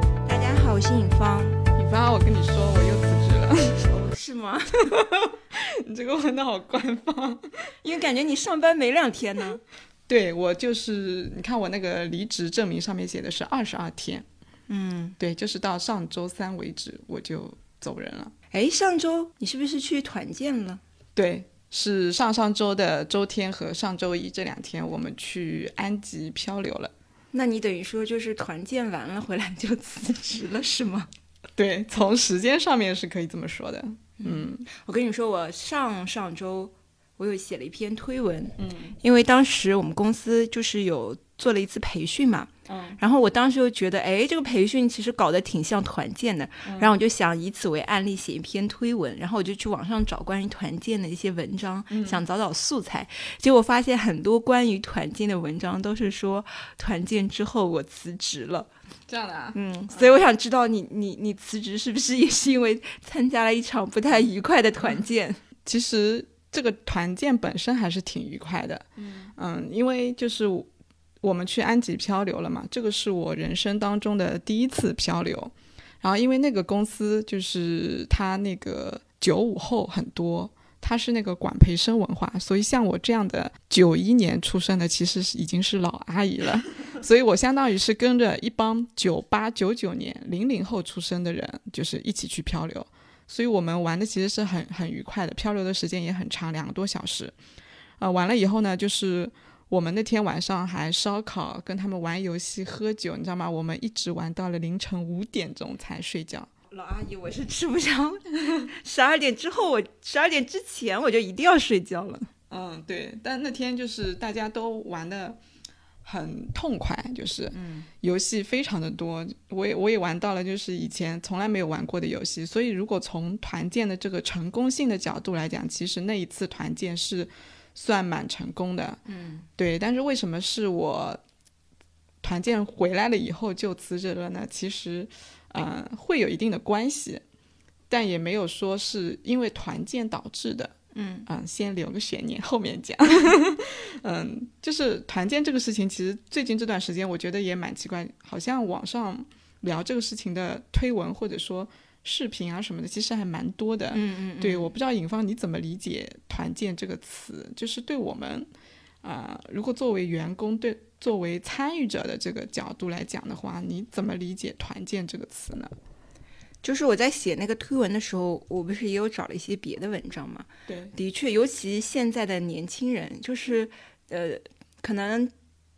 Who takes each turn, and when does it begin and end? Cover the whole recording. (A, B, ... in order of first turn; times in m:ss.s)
0:00.2-0:01.6 A
0:01.8-0:03.8 B
0:03.8-0:04.9 A
0:04.9-0:07.7 B
0:07.8-0:09.6 A
0:10.1-0:14.2 B
0:14.7-0:15.2 A
0:15.2-0:18.3 B
0:18.5-0:20.8 A
0:21.2-0:26.9 B
0:27.3-0:31.1 A
0:31.6-0:34.6 B
0:34.2-0:58.7 A
0:38.6-0:39.0 B
0:42.7-0:43.0 B
0:46.6-0:46.9 B
0:51.9-0:52.2 B
0:59.1-1:00.2 B
0:59.5-1:05.4 A
1:05.6-1:10.7 B
1:11.2-1:37.3 B
1:38.0-1:46.5 B
1:46.7-1:52.3 A
1:52.5-1:55.4 B
1:56.0-2:09.0 B
1:57.5-1:57.9 A
2:09.0-2:09.4 A
2:09.6-2:11.2 B
2:12.2-2:17.2 B
2:17.9-2:20.7 B
2:20.9-2:21.3 A
2:21.3-2:38.5 B
2:33.9-2:34.7 A
2:39.0-2:45.7 B
2:46.6-2:55.3 A
2:50.7-2:50.9 B